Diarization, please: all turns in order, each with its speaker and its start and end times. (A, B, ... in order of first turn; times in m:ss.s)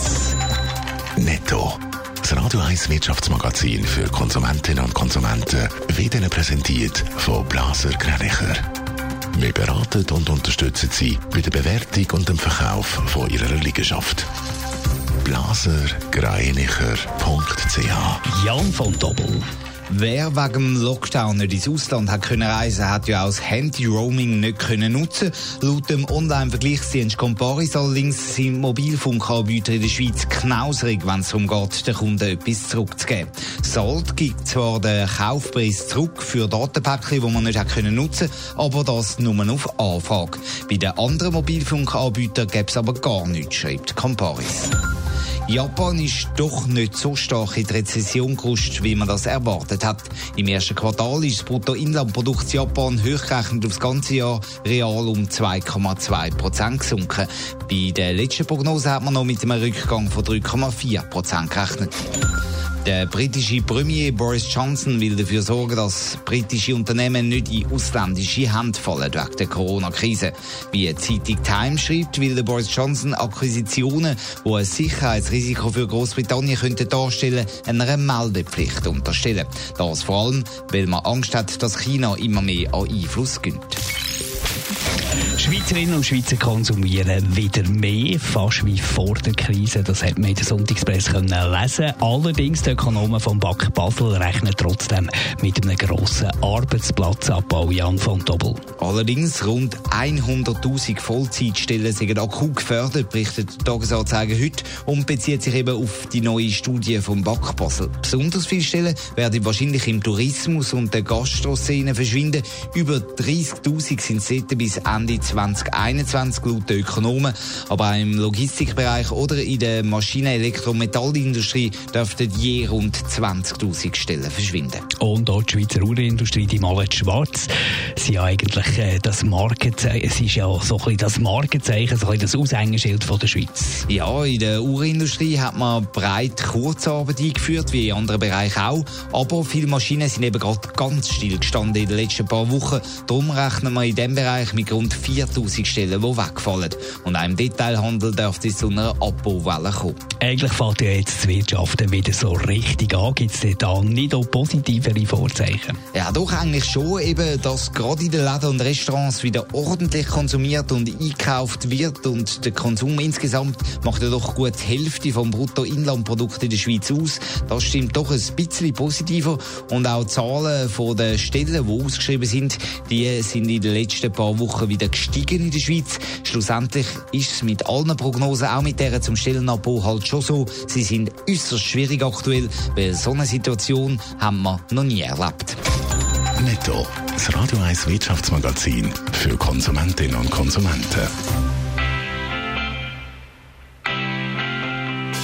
0:01.2-0:08.6 A
0:09.3-0:14.3 A
0:15.2-0:18.2 A
0:18.2-0:19.4 B
0:19.9-0:44.8 C
0:45.5-1:02.0 C
1:02.8-1:23.8 C
1:25.4-1:38.6 B
1:38.8-2:04.8 C
2:05.0-2:13.8 B
2:13.9-2:30.0 C
2:30.2-2:35.8 B
2:35.9-3:05.6 C
3:06.4-3:11.1 A